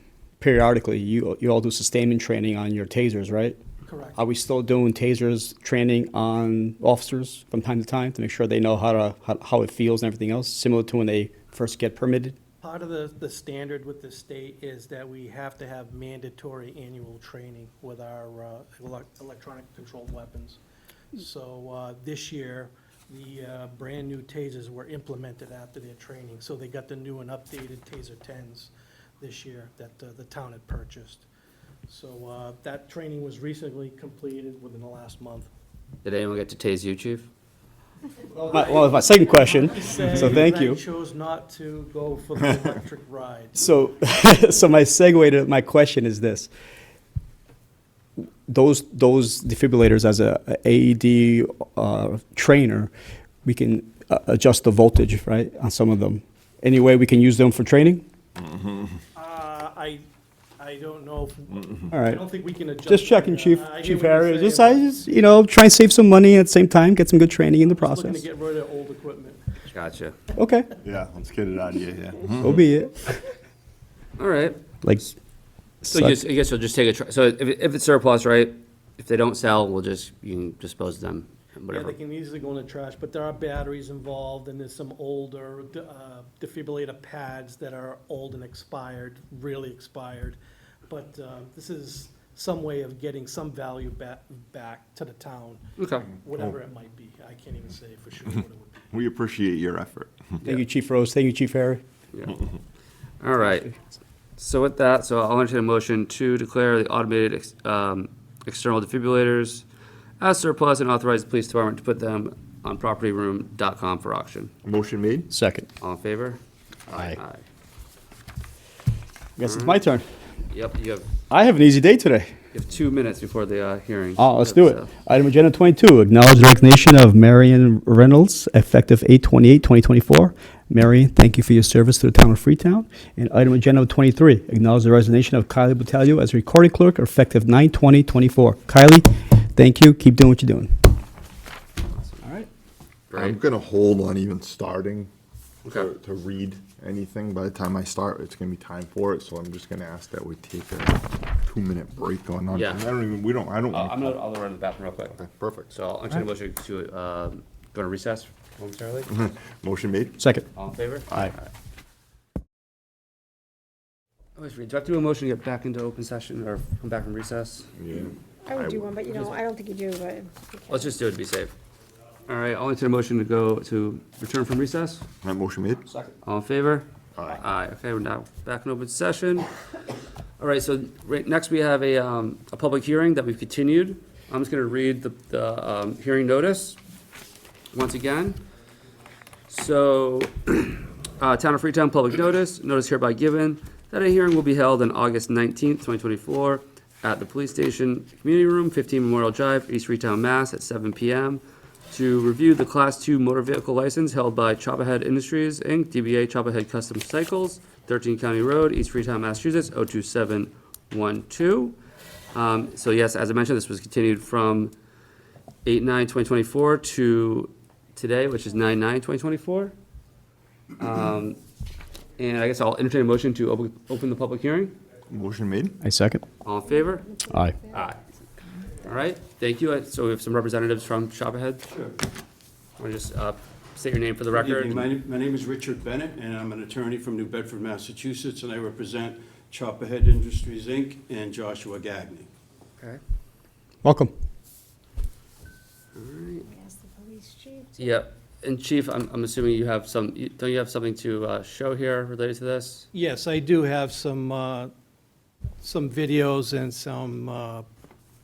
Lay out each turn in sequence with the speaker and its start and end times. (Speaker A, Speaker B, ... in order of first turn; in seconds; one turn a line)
Speaker A: 0.4-3.6
Speaker B: 3.8-4.2
Speaker A: 4.2-12.3
Speaker B: 12.6-20.6
Speaker B: 21.1-31.2
Speaker B: 31.9-35.5
Speaker C: 36.0-37.3
Speaker B: 38.4-43.7
Speaker A: 38.4-40.8
Speaker A: 43.5-46.5
Speaker A: 48.5-52.9
Speaker A: 53.4-58.0
Speaker D: 58.4-58.9
Speaker B: 59.1-60.0
Speaker B: 60.6-64.9
Speaker A: 61.9-62.2
Speaker A: 62.9-68.2
Speaker B: 67.6-69.4
Speaker C: 69.7-70.2
Speaker A: 70.3-70.7
Speaker D: 70.8-72.6
Speaker A: 72.4-73.2
Speaker C: 74.2-74.6
Speaker A: 74.8-75.1
Speaker A: 75.8-76.2
Speaker C: 75.9-82.0
Speaker B: 81.7-98.8
Speaker C: 95.8-96.1
Speaker D: 98.9-100.4
Speaker A: 100.4-101.8
Speaker C: 103.2-103.7
Speaker C: 104.4-109.6
Speaker C: 110.2-114.5
Speaker D: 114.6-115.3
Speaker A: 115.3-115.7
Speaker C: 115.8-116.4
Speaker C: 116.9-117.4
Speaker A: 116.9-117.2
Speaker A: 119.4-120.0
Speaker C: 119.4-119.8
Speaker C: 120.5-121.1
Speaker A: 121.3-122.3
Speaker C: 122.5-124.9
Speaker A: 124.2-140.7
Speaker A: 142.2-142.5
Speaker C: 143.1-143.4
Speaker D: 143.1-145.1
Speaker D: 145.7-154.2
Speaker C: 152.5-152.8
Speaker C: 153.7-155.2
Speaker D: 155.1-155.7
Speaker C: 155.7-159.1
Speaker D: 159.1-160.2
Speaker A: 160.2-160.4
Speaker C: 160.5-161.2
Speaker C: 164.3-167.7
Speaker D: 167.8-169.0
Speaker E: 168.4-170.9
Speaker C: 170.7-171.5
Speaker C: 172.3-175.1
Speaker D: 175.2-175.9
Speaker C: 175.9-179.5
Speaker D: 177.2-177.4
Speaker C: 180.4-186.8
Speaker C: 187.7-188.4
Speaker C: 189.5-211.8
Speaker C: 212.3-214.7
Speaker C: 215.6-219.7
Speaker C: 220.8-221.4
Speaker C: 222.2-224.7
Speaker D: 225.1-225.8
Speaker A: 225.8-226.2
Speaker C: 226.4-227.1
Speaker E: 226.7-227.9
Speaker A: 227.3-227.6
Speaker C: 227.7-228.0
Speaker C: 228.8-231.6
Speaker C: 232.8-234.9
Speaker F: 234.6-236.0
Speaker F: 236.7-242.1
Speaker A: 243.8-244.1
Speaker C: 245.9-246.5
Speaker E: 246.5-247.9
Speaker C: 247.8-252.9
Speaker B: 252.9-254.7
Speaker B: 255.6-257.6